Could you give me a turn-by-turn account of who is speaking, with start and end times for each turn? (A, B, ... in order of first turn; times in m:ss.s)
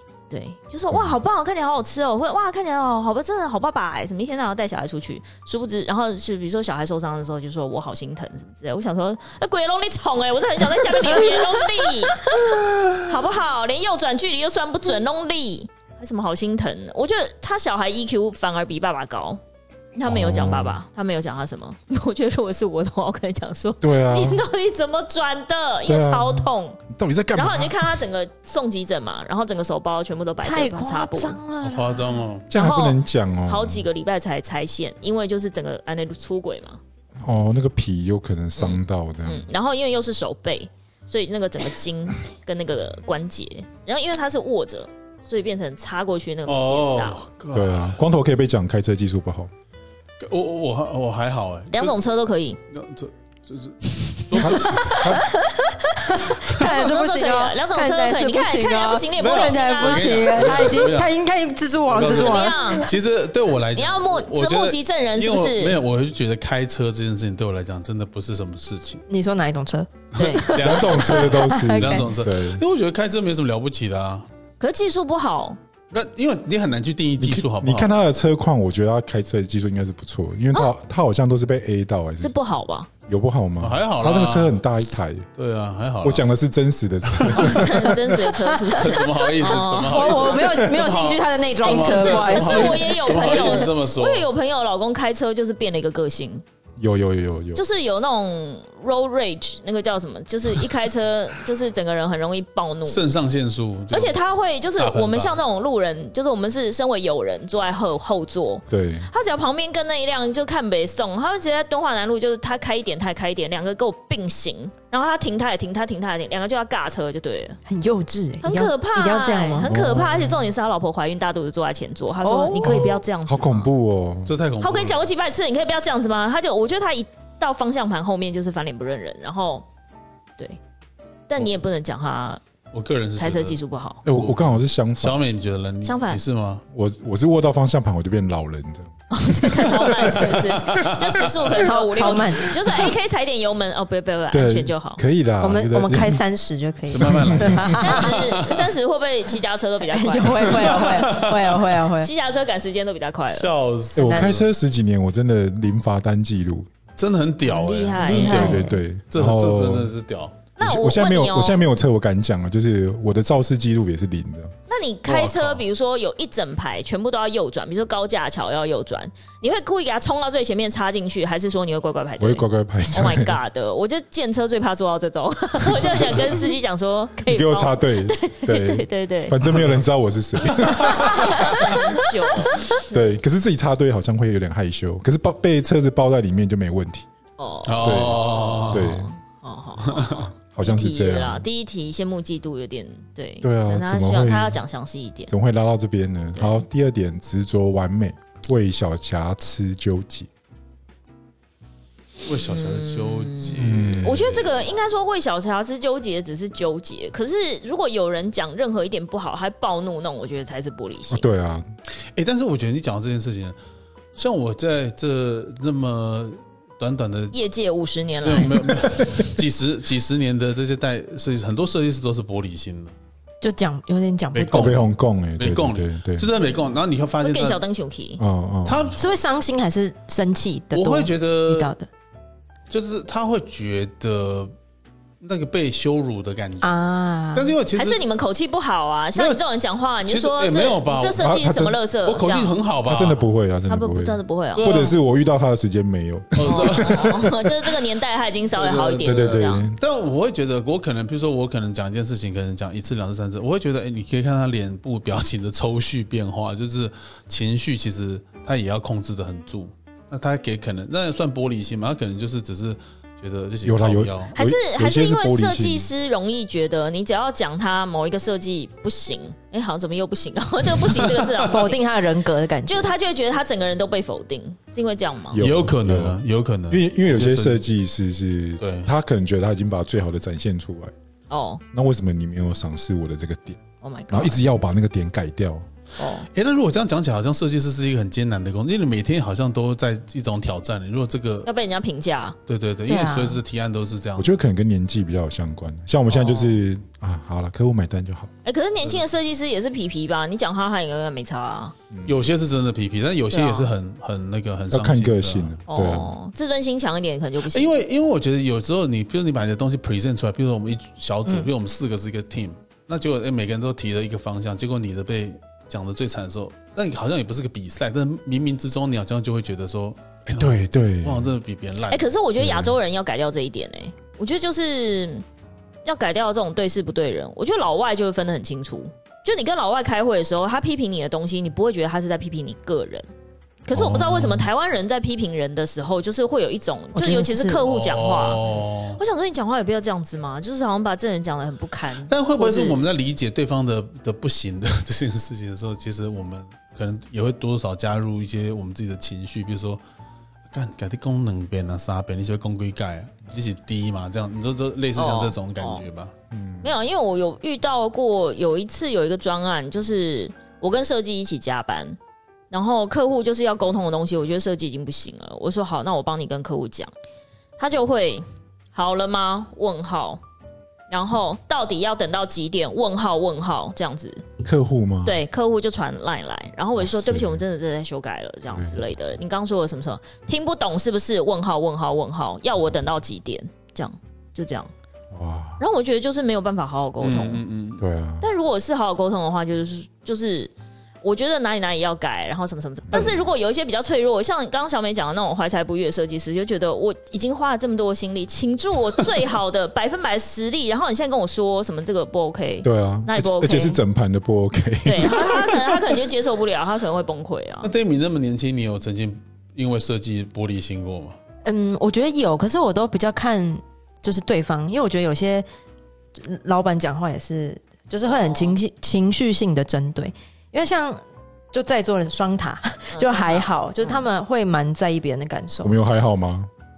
0:00.3-0:19.4 A
0:00.9-0:01.2 B
0:11.1-0:13.0 C
0:20.0-0:26.8 A
0:20.0-0:20.8 B
0:23.8-0:24.4 B
0:25.8-0:28.0 B
0:27.3-0:31.4 A
0:30.4-0:32.2 C
0:31.6-0:32.5 D
0:32.5-0:33.8 B
0:32.5-0:36.8 A
0:37.2-0:39.4 B
0:38.6-0:47.2 A
0:46.5-0:48.0 D
0:47.5-0:49.5 B
0:50.2-0:52.0 D
0:51.7-0:52.6 A
0:52.7-0:55.2 D
0:54.3-1:02.8 C
0:54.4-0:55.3 B
0:56.4-1:00.7 A
0:59.2-1:01.1 D
1:01.8-1:09.0 D
1:02.0-1:02.9 A
1:03.7-1:05.8 A
1:09.1-1:12.1 C
1:10.1-1:10.5 A
1:10.2-1:14.3 D
1:10.6-1:12.6 B
1:14.6-1:15.6 A
1:15.9-1:18.0 D
1:17.2-1:22.3 B
1:22.2-1:22.9 A
1:23.1-1:25.3 B
1:23.6-1:24.6 D
1:25.4-1:26.3 D
1:26.0-1:28.2 B
1:27.0-1:27.7 D
1:27.3-1:30.8 A
1:28.2-1:33.7 C
1:28.7-1:34.3 D
1:31.6-1:36.4 A
1:36.8-1:37.6 B
1:37.5-1:43.0 A
1:42.8-1:44.2 D
1:43.9-1:57.6 A
1:44.8-1:45.4 D
1:48.7-1:49.1 B
1:57.6-1:59.7 C
1:58.4-2:03.7 A
1:59.6-2:00.5 B
2:02.2-2:02.9 C
2:02.6-2:04.3 B
2:04.2-2:05.1 D
2:04.6-2:09.6 A
2:11.3-2:12.4 A
2:12.7-2:16.6 D
2:13.2-2:14.0 A
2:14.0-2:15.2 B
2:15.8-2:16.2 A
2:16.7-2:18.9 B
2:19.1-2:25.0 A
2:20.0-2:21.6 D
2:21.5-2:22.6 C
2:24.3-2:26.2 B
2:25.4-2:28.2 C
2:26.9-2:28.6 D
2:27.0-2:27.9 B
2:27.7-2:30.8 A
2:29.8-2:32.1 C
2:30.5-2:31.7 D
2:32.0-2:33.5 A
2:33.3-2:34.4 D
2:33.9-2:36.7 B
2:34.0-2:34.4 C
2:37.0-2:40.4 D
2:37.4-2:38.7 A
2:38.0-2:39.9 B
2:40.6-2:41.6 A
2:40.6-2:44.5 B
2:44.7-2:59.4 A
2:45.0-2:45.6 D
2:52.2-2:53.4 B
2:55.7-2:56.3 B
2:57.2-3:02.0 B
3:00.4-3:02.8 A
3:00.6-3:01.6 D
3:02.6-3:07.1 B
3:07.4-3:15.3 A
3:07.6-3:09.0 D
3:07.8-3:09.1 B
3:09.8-3:10.3 D
3:10.5-3:11.4 B
3:13.4-3:14.6 B
3:15.3-3:20.3 B
3:16.4-3:16.6 A
3:22.2-3:24.6 D
3:22.4-3:31.2 A
3:23.6-3:24.4 B
3:31.1-3:31.6 B
3:32.1-3:33.6 D
3:34.1-3:37.4 D
3:37.3-3:38.7 A
3:38.2-3:42.9 D
3:38.8-3:39.3 B
3:43.4-3:44.8 C
3:44.3-3:47.6 D
3:44.5-3:46.3 B
3:47.2-3:48.2 A
3:48.2-3:48.9 B
3:48.6-3:49.1 D
3:49.0-3:51.9 C
3:50.7-3:51.7 D
3:52.7-3:54.5 D
3:55.2-3:56.8 D
3:56.6-3:57.5 C
3:57.3-3:58.0 D
3:57.8-4:02.5 A
3:59.1-3:59.4 D
4:00.0-4:01.2 D
4:01.2-4:01.8 B
4:02.0-4:03.3 D
4:02.8-4:07.4 B
4:03.7-4:04.9 A
4:04.6-4:05.0 D
4:06.3-4:07.2 D
4:06.4-4:09.6 A
4:08.5-4:24.4 D
4:09.0-4:09.8 B
4:23.6-4:25.9 B
4:24.4-4:31.8 A
4:30.8-4:31.2 D
4:31.4-4:32.9 C
4:32.6-4:35.4 A
4:35.3-4:40.9 B
4:35.4-4:37.6 D
4:38.6-4:38.9 D
4:41.3-4:41.6 A
4:41.7-4:45.6 B
4:43.8-4:44.4 A
4:46.0-4:46.3 A
4:46.3-4:51.5 D
4:51.4-4:52.4 A
4:52.5-4:54.3 D
4:52.8-4:53.4 C
4:54.2-4:58.3 B
4:56.2-4:56.4 D
4:58.4-5:01.7 A
5:02.0-5:05.6 D
5:03.3-5:03.7 A
5:04.7-5:06.1 B
5:05.7-5:07.8 A
5:07.5-5:22.1 D
5:20.3-5:21.3 B
5:21.9-5:25.2 A
5:22.4-5:22.8 B
5:25.8-5:33.1 A
5:33.6-5:38.4 A
5:33.7-5:34.5 B
5:36.9-5:37.6 C
5:37.6-5:39.0 D
5:39.0-5:42.8 A
5:42.1-5:49.8 D
5:50.5-5:56.1 D
5:55.0-5:55.8 A
5:56.3-5:56.7 B
5:56.6-6:02.0 A
6:02.5-6:06.9 A
6:07.6-6:10.2 A
6:10.9-6:14.2 A
6:14.4-6:15.2 B
6:15.0-6:24.7 A
6:16.8-6:17.4 B
6:18.5-6:18.8 B
6:25.1-6:25.6 B
6:25.6-6:27.4 A
6:27.0-6:27.8 D
6:27.8-6:28.2 B
6:28.2-6:43.8 A
6:32.9-6:33.3 B
6:42.6-6:46.0 B
6:44.8-6:47.7 A
6:47.6-6:51.2 D
6:51.4-6:55.4 C
6:56.2-7:01.0 C
6:58.1-6:58.6 A
7:01.5-7:05.7 C
7:02.9-7:04.0 A
7:05.6-7:06.5 B